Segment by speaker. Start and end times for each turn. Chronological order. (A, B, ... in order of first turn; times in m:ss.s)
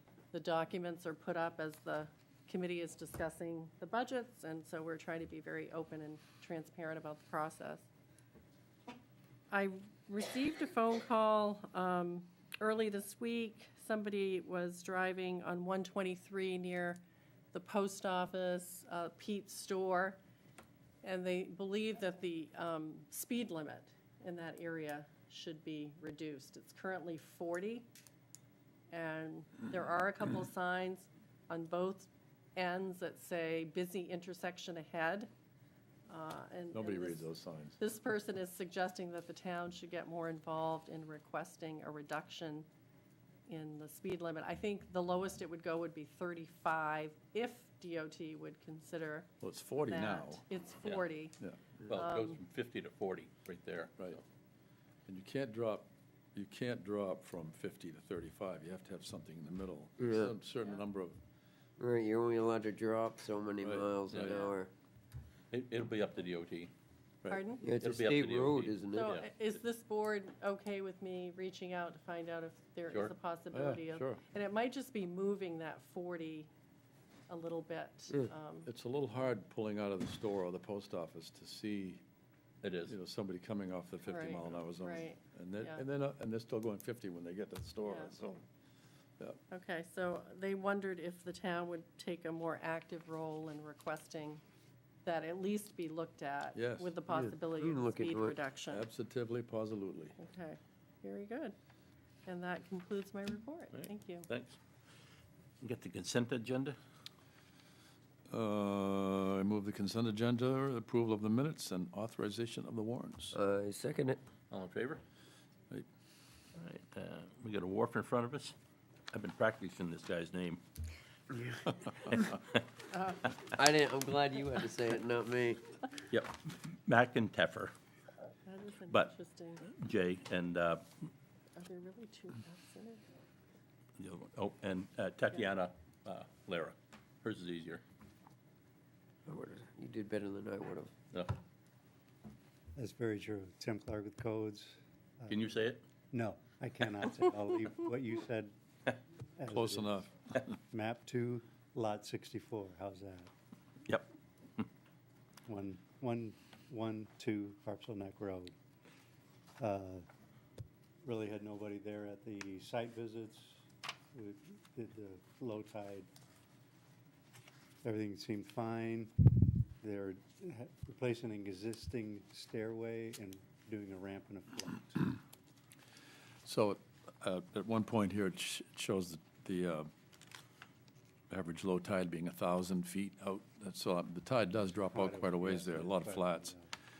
0:00.3-0:07.9 A
0:09.5-0:17.0 A
0:17.5-0:20.2 A
0:21.0-0:27.9 A
0:28.9-0:35.3 A
0:36.1-0:37.3 A
0:36.7-0:37.8 B
0:37.8-0:42.7 A
0:43.5-0:49.3 A
0:49.4-0:50.4 B
0:49.8-0:51.4 A
0:51.8-0:54.2 C
0:51.9-0:52.4 A
0:55.1-1:01.2 B
1:00.0-1:00.4 D
1:01.8-1:04.7 D
1:03.6-1:04.5 B
1:04.2-1:04.5 C
1:05.5-1:06.7 C
1:07.2-1:07.5 B
1:07.3-1:07.6 A
1:07.6-1:09.1 D
1:07.7-1:09.3 C
1:08.9-1:16.5 A
1:13.5-1:14.2 B
1:17.3-1:18.7 A
1:18.7-1:22.0 B
1:22.6-1:22.9 C
1:22.9-1:28.4 B
1:24.1-1:25.8 A
1:27.8-1:28.1 A
1:29.5-1:34.4 A
1:35.0-1:38.8 A
1:36.6-1:37.2 B
1:37.5-1:38.4 D
1:38.7-1:40.2 B
1:40.2-1:41.6 A
1:42.3-1:44.3 A
1:43.8-1:44.6 C
1:45.6-1:46.8 C
1:48.3-1:53.4 B
1:53.3-1:54.2 D
1:54.5-1:55.0 C
1:56.6-1:58.6 C
1:59.1-2:00.6 C
2:02.1-2:02.6 C
2:03.5-2:05.6 D
2:06.1-2:07.7 C
2:08.5-2:09.6 A
2:09.7-2:11.1 C
2:11.6-2:13.0 A
2:14.0-2:17.8 C
2:19.3-2:20.9 D
2:22.8-2:25.4 E
2:25.3-2:25.8 C
2:26.1-2:28.5 E
2:29.4-2:30.1 E
2:29.5-2:30.1 B
2:30.7-2:33.3 E
2:35.5-2:38.5 E
2:39.6-2:40.0 E
2:41.0-2:46.1 E
2:47.8-2:55.2 E
2:56.5-2:59.9 B
3:01.3-3:06.5 B
3:04.9-3:06.7 E